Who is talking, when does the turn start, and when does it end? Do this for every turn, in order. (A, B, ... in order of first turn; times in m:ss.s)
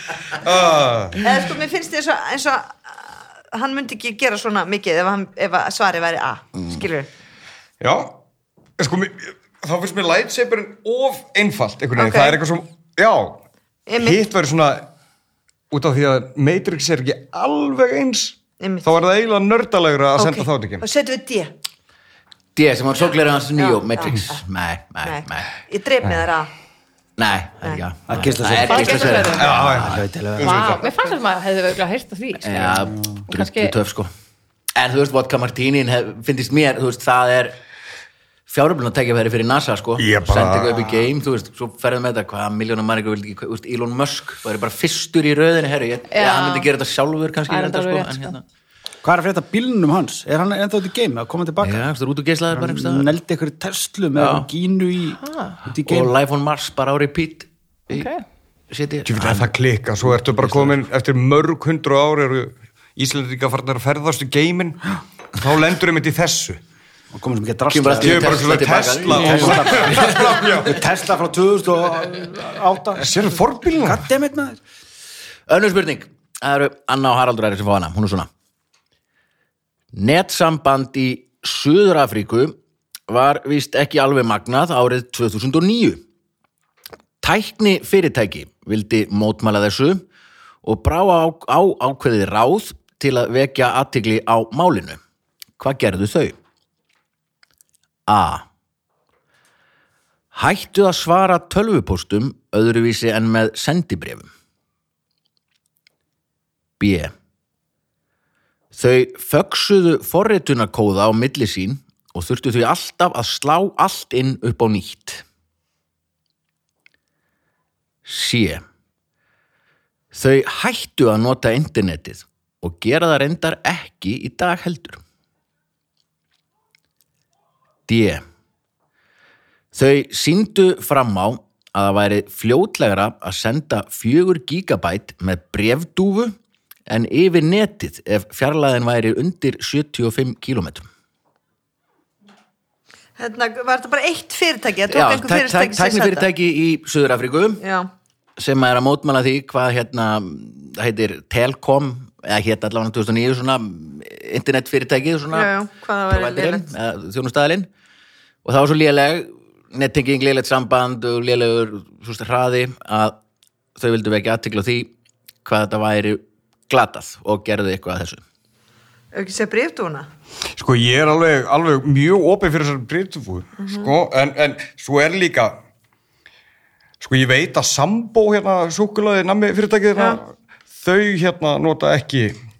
0:00.4-0:01.2 A
0:01.2-0:07.1 B
0:07.8-0:08.2 A
0:08.8-0:13.4 A
0:12.0-0:12.4 B
0:13.9-0:14.2 B
0:13.9-0:14.9 A
0:15.7-0:20.8 A
0:18.6-0:18.9 B
0:20.2-0:21.5 B
0:22.6-0:25.5 C
0:23.6-0:24.4 B
0:25.0-0:26.5 B
0:27.2-0:30.0 C
0:28.1-0:30.6 D
0:28.7-0:29.6 E
0:29.3-0:30.9 A
0:30.4-0:33.7 E
0:32.4-0:34.1 C
0:32.8-0:33.2 D
0:34.7-0:37.6 C
0:38.5-0:48.4 C
0:40.0-0:40.8 A
0:46.1-0:46.7 E
0:47.5-0:48.4 E
0:49.0-0:51.8 D
0:51.6-0:53.1 C
0:52.5-0:56.1 D
0:54.2-0:54.5 C
0:55.2-0:55.6 E
0:55.8-0:58.1 C
0:57.9-0:58.2 E
0:58.7-0:59.5 C
0:59.0-1:06.6 A
1:00.0-1:00.7 C
1:07.1-1:08.5 D
1:07.7-1:10.5 C
1:08.0-1:10.8 A
1:09.1-1:14.6 D
1:13.0-1:14.0 A
1:15.5-1:18.3 C
1:19.9-1:22.5 C
1:23.1-1:26.0 C
1:27.2-1:30.0 C
1:30.6-1:35.0 C
1:35.6-1:36.4 C
1:38.1-1:38.4 C
1:40.3-1:44.3 C
1:46.8-1:47.1 C
1:48.7-1:55.2 C
1:58.0-1:58.6 C
2:00.1-2:05.0 C
2:07.9-2:08.2 C
2:09.7-2:16.4 C
2:16.9-2:20.8 C
2:23.2-2:26.3 B
2:24.9-2:27.6 C
2:27.6-2:27.9 B
2:28.4-2:37.7 C
2:35.3-2:36.7 B
2:38.4-2:43.2 C
2:43.8-2:44.9 C
2:45.4-2:48.2 C
2:49.1-2:50.1 B
2:50.6-2:55.6 A
2:53.6-2:53.9 B
2:57.0-3:02.4 A